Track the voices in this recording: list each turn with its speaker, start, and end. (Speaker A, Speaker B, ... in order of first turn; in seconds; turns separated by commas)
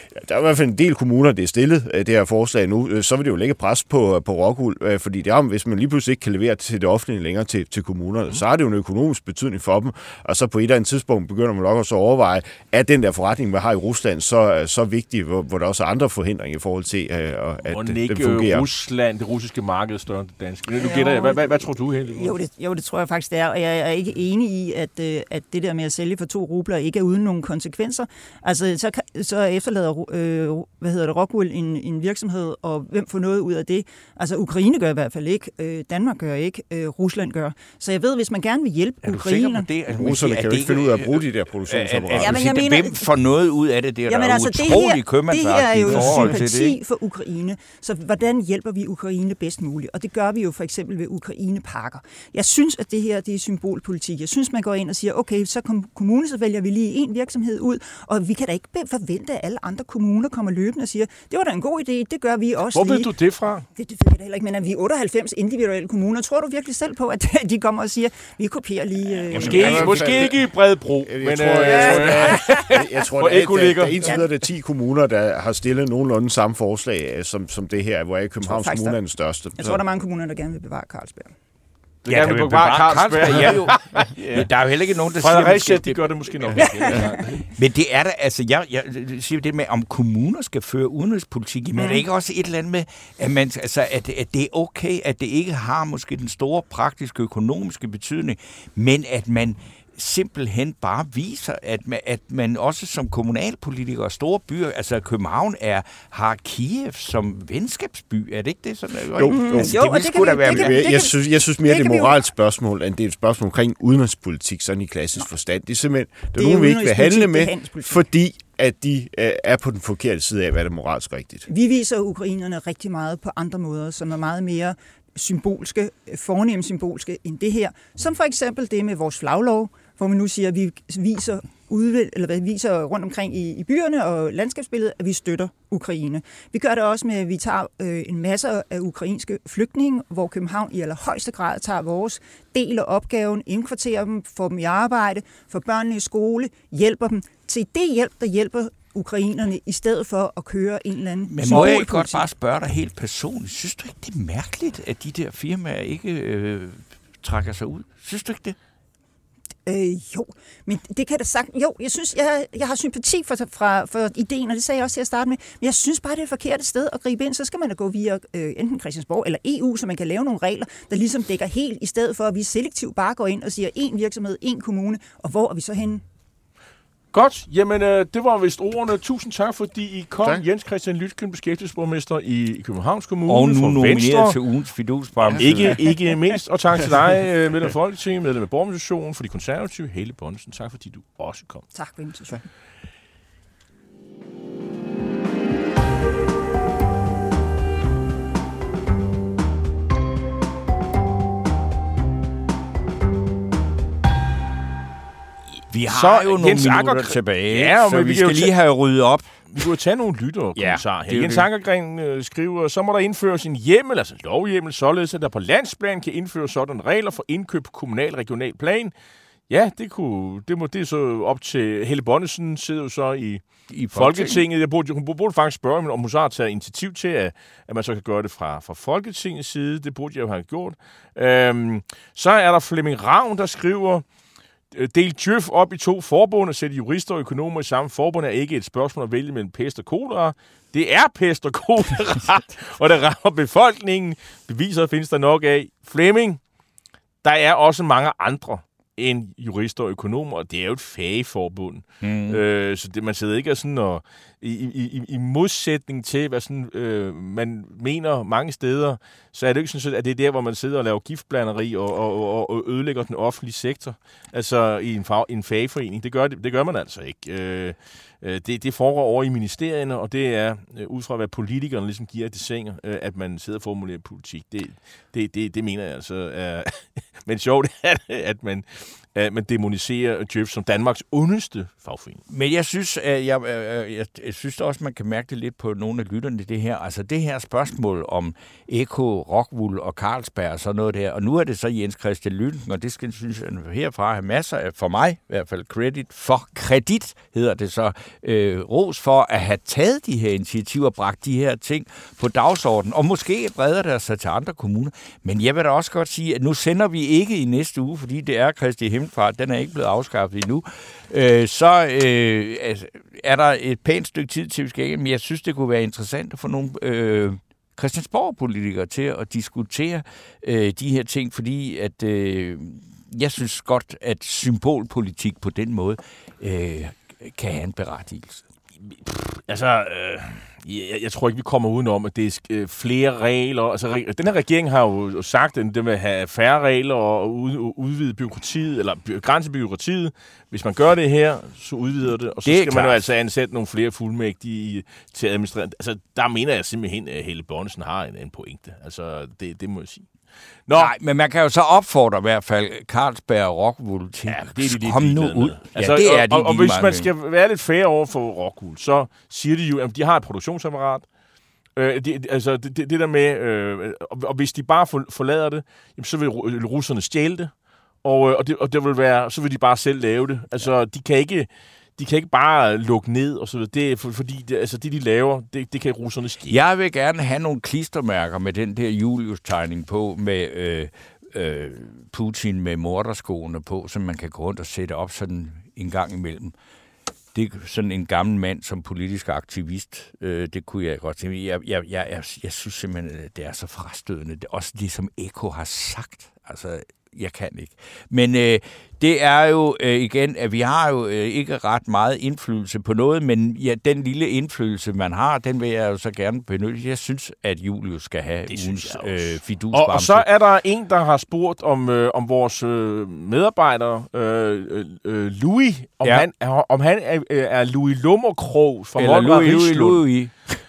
Speaker A: 0.1-18.7, Speaker B: 17.6-22.3, Speaker C: 20.8-39.7, Speaker D: 39.0-46.8, Speaker A: 39.9-42.5, Speaker C: 42.2-43.1, Speaker C: 44.1-63.1, Speaker A: 45.8-46.6, Speaker B: 62.7-63.7, Speaker C: 63.8-70.1, Speaker A: 69.3-79.8, Speaker B: 69.3-74.2, Speaker C: 71.7-72.3, Speaker C: 78.5-79.0, Speaker C: 79.6-81.3, Speaker B: 82.0-84.5, Speaker D: 82.1-110.8, Speaker B: 85.2-87.5, Speaker C: 86.6-87.2, Speaker C: 91.8-92.0, Speaker A: 109.1-121.5, Speaker C: 109.3-112.1, Speaker C: 116.3-118.0, Speaker C: 121.5-152.3, Speaker D: 151.3-158.6, Speaker C: 159.7-176.0, Speaker B: 177.1-184.4, Speaker D: 183.3-185.8, Speaker A: 185.2-185.9, Speaker B: 185.3-191.6, Speaker C: 191.7-192.4, Speaker D: 205.7-209.3, Speaker B: 205.9-208.5, Speaker B: 209.5-218.9, Speaker D: 210.6-211.5, Speaker B: 219.5-234.1, Speaker D: 223.7-224.4, Speaker B: 234.7-246.4, Speaker B: 247.2-282.2, Speaker D: 252.0-252.4, Speaker D: 282.3-328.4, Speaker B: 328.9-350.1, Speaker D: 342.4-343.0, Speaker B: 350.7-350.9, Speaker D: 350.8-357.1, Speaker B: 354.3-361.1, Speaker B: 361.8-376.6, Speaker D: 376.5-386.5, Speaker D: 387.3-410.2, Speaker B: 408.5-420.0, Speaker D: 419.0-420.6